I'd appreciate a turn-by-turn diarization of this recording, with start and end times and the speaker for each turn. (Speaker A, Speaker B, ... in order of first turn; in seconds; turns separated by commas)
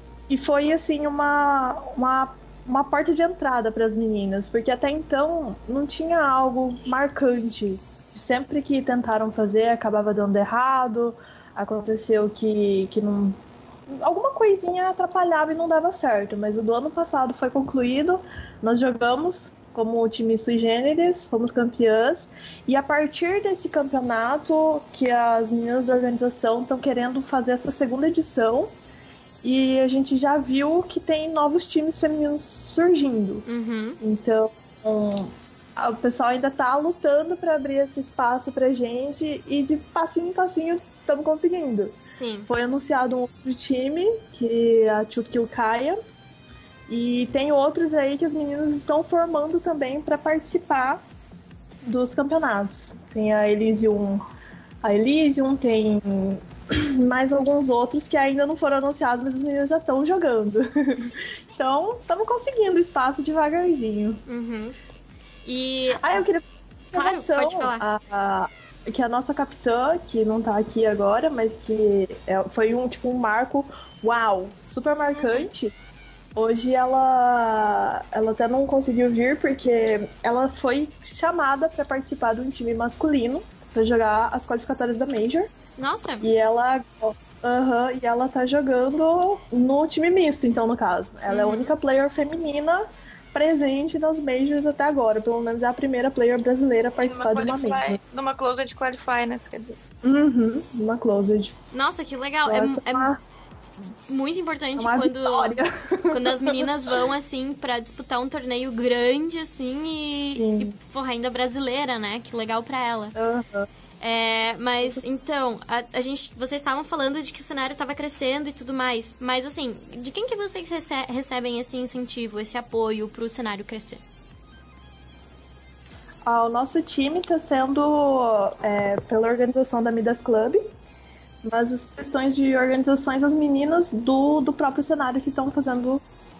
Speaker A: 0.3-28.7, Speaker A: 29.4-33.4, Speaker B: 33.5-34.0, Speaker A: 34.0-46.0, Speaker B: 42.0-42.5, Speaker A: 46.9-51.0, Speaker A: 51.8-54.2, Speaker A: 54.8-64.2, Speaker B: 64.3-64.7, Speaker B: 65.5-66.2, Speaker A: 65.9-75.7, Speaker B: 66.9-67.8, Speaker A: 76.3-85.5, Speaker B: 85.8-86.3, Speaker A: 86.2-98.0, Speaker B: 91.3-91.7, Speaker C: 97.0-99.8, Speaker A: 100.0-101.5, Speaker B: 101.7-103.1, Speaker A: 102.5-103.2, Speaker B: 103.8-105.6, Speaker A: 104.8-106.7, Speaker B: 106.1-113.1, Speaker A: 110.3-110.8, Speaker A: 113.2-113.7, Speaker B: 114.0-124.0, Speaker A: 126.2-130.6, Speaker A: 131.4-136.0